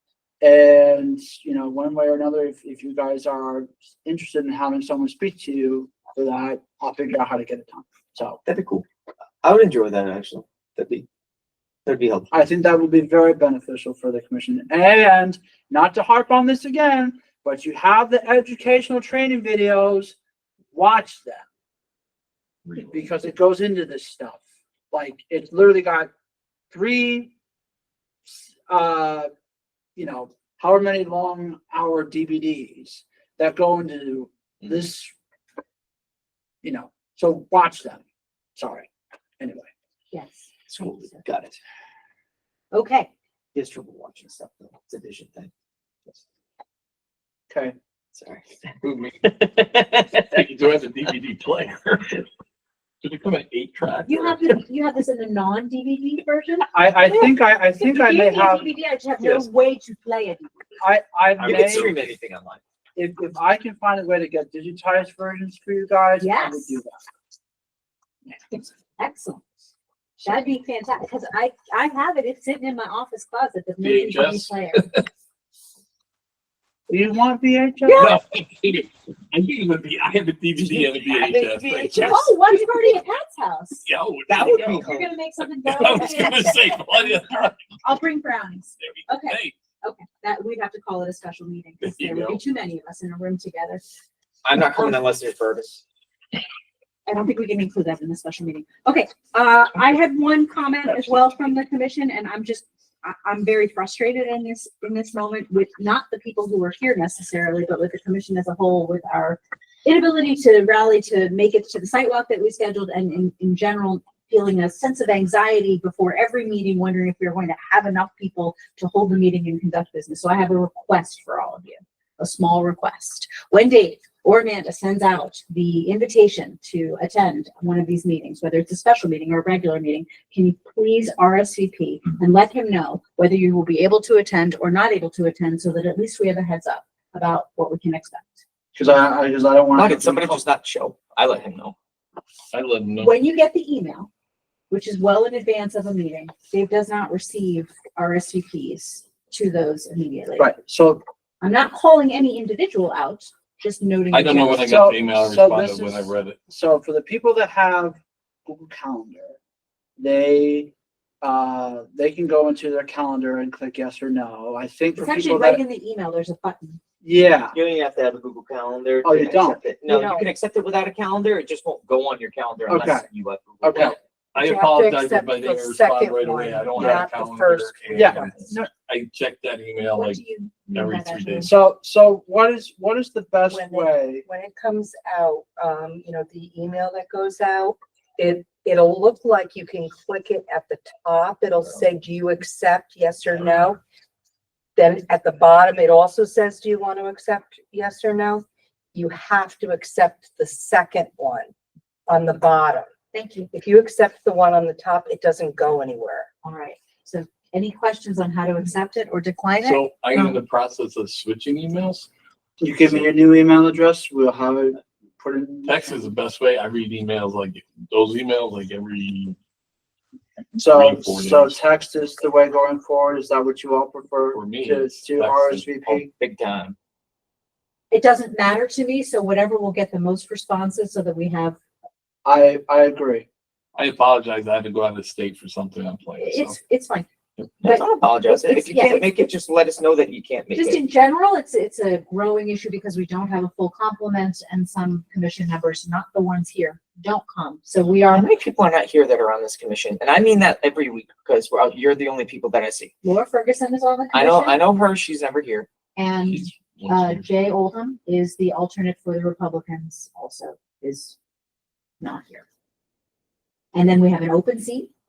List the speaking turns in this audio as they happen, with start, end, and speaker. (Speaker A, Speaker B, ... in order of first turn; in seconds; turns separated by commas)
Speaker A: 0.4-8.4, Speaker B: 8.5-8.8, Speaker B: 9.4-11.1, Speaker B: 11.9-12.3, Speaker A: 12.3-20.2, Speaker A: 20.7-21.5, Speaker A: 22.8-26.1, Speaker A: 26.7-27.3, Speaker A: 28.3-29.3, Speaker A: 30.0-35.1, Speaker A: 36.6-38.0, Speaker A: 38.6-39.7, Speaker C: 40.1-40.5, Speaker B: 40.7-41.6, Speaker C: 42.7-43.1, Speaker B: 43.5-45.5, Speaker A: 47.5-47.8, Speaker B: 48.1-50.2, Speaker D: 48.8-49.2, Speaker D: 50.2-52.3, Speaker D: 53.0-54.4, Speaker C: 54.1-60.7, Speaker A: 56.7-58.7, Speaker A: 60.8-61.9, Speaker B: 61.4-62.6, Speaker A: 63.0-67.0, Speaker C: 66.2-66.8, Speaker C: 68.3-69.4, Speaker C: 70.2-74.8, Speaker D: 73.8-75.1, Speaker A: 76.9-78.1, Speaker C: 77.8-78.2, Speaker D: 78.0-82.2, Speaker B: 80.6-82.7, Speaker C: 81.9-83.8, Speaker D: 83.8-84.9, Speaker B: 84.3-85.1, Speaker C: 84.5-86.6, Speaker D: 85.7-87.7, Speaker C: 87.8-93.8, Speaker D: 88.8-89.5, Speaker D: 91.8-92.4, Speaker B: 94.4-95.8, Speaker C: 97.1-138.4, Speaker A: 138.8-140.4, Speaker B: 139.8-141.8, Speaker D: 142.5-143.1, Speaker C: 143.0-144.1, Speaker C: 144.7-150.5, Speaker A: 150.4-151.0, Speaker C: 151.4-154.7, Speaker D: 154.1-156.4, Speaker A: 154.6-159.4, Speaker A: 160.0-165.6, Speaker C: 165.0-166.8, Speaker A: 167.0-167.6, Speaker B: 167.5-174.0, Speaker A: 169.0-169.6, Speaker E: 169.9-170.3, Speaker A: 172.7-173.1, Speaker A: 173.6-174.0, Speaker D: 174.3-180.2, Speaker E: 174.4-178.3, Speaker A: 176.8-177.1, Speaker A: 177.9-178.7, Speaker C: 179.9-181.5, Speaker D: 180.7-181.5, Speaker A: 181.4-184.2, Speaker E: 183.5-193.8, Speaker E: 194.8-201.5, Speaker E: 202.1-202.9, Speaker C: 203.1-203.5, Speaker E: 203.5-206.3, Speaker C: 206.4-210.4, Speaker D: 209.6-212.1, Speaker A: 212.6-216.0, Speaker D: 215.7-219.4, Speaker A: 220.6-226.1, Speaker D: 220.6-221.6, Speaker D: 224.3-225.8, Speaker B: 225.9-226.8, Speaker C: 227.9-231.6, Speaker A: 232.2-233.3, Speaker D: 233.8-236.6, Speaker C: 236.2-237.1, Speaker C: 237.6-239.1, Speaker B: 237.6-240.8, Speaker C: 240.5-248.3, Speaker B: 248.1-252.9, Speaker C: 253.0-254.6, Speaker B: 254.1-255.7, Speaker C: 256.0-261.2, Speaker D: 256.3-257.3, Speaker C: 262.0-262.4, Speaker C: 263.7-264.9